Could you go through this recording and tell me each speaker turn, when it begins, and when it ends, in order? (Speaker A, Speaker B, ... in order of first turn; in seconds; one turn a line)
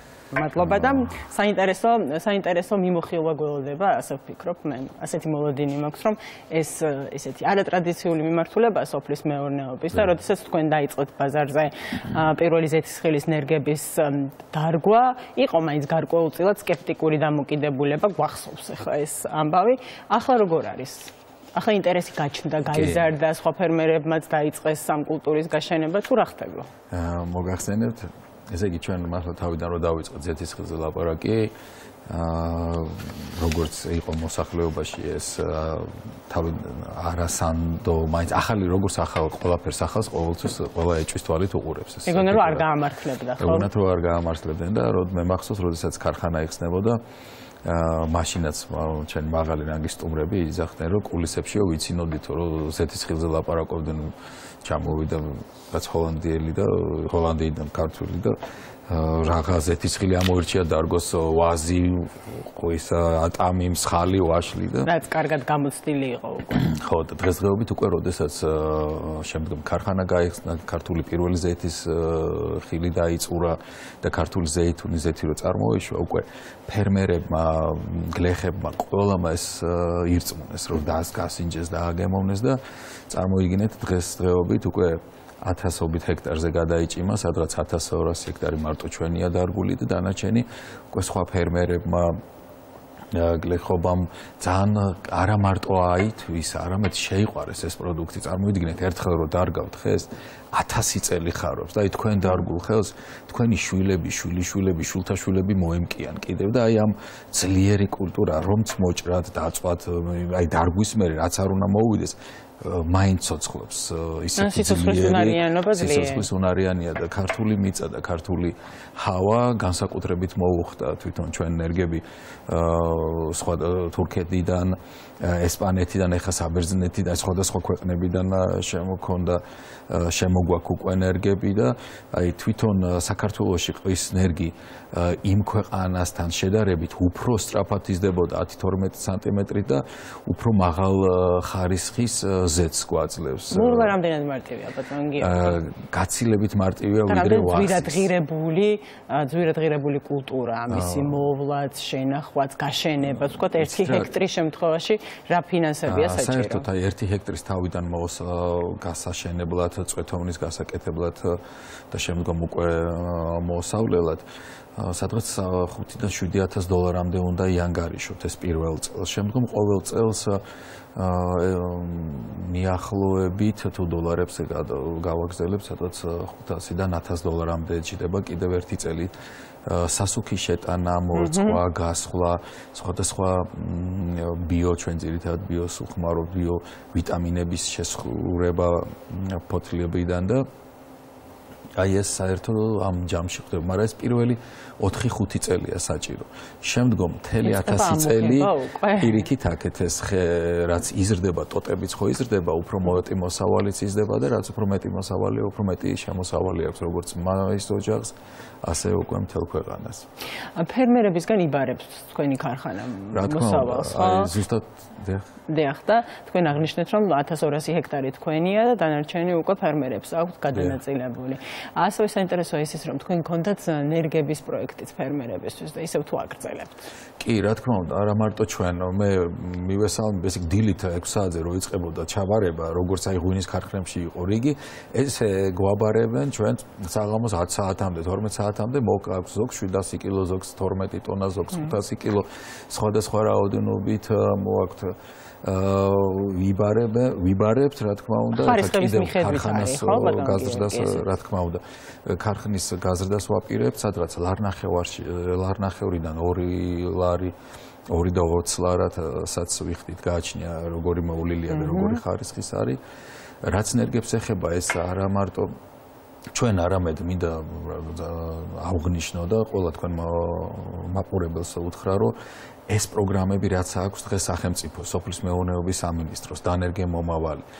Speaker A: 0.3-26.7
Speaker B: 0.6-1.1
Speaker B: 22.7-23.1
Speaker B: 26.9-31.5
Speaker B: 32.1-42.7
Speaker A: 42.0-43.7
Speaker B: 43.4-47.0
Speaker B: 47.6-54.1
Speaker B: 54.6-58.4
Speaker B: 58.9-64.9
Speaker A: 64.8-66.6
Speaker B: 66.5-92.2
Speaker B: 93.1-144.0
Speaker A: 114.4-116.3
Speaker A: 143.5-145.6
Speaker B: 145.2-148.1
Speaker A: 147.1-156.7
Speaker B: 150.7-151.3
Speaker B: 153.2-154.1
Speaker B: 155.9-161.4
Speaker B: 161.9-164.2
Speaker B: 164.8-170.4
Speaker B: 170.9-179.1
Speaker B: 179.7-190.4
Speaker A: 181.1-181.6
Speaker B: 191.8-210.1
Speaker A: 197.4-199.3
Speaker A: 210.5-214.3
Speaker B: 213.1-215.2
Speaker A: 215.5-226.8
Speaker B: 220.5-220.8
Speaker B: 227.2-257.3
Speaker A: 248.3-251.1
Speaker B: 257.9-262.8
Speaker A: 261.5-262.0
Speaker B: 263.4-265.5
Speaker B: 266.3-272.1
Speaker B: 272.7-277.4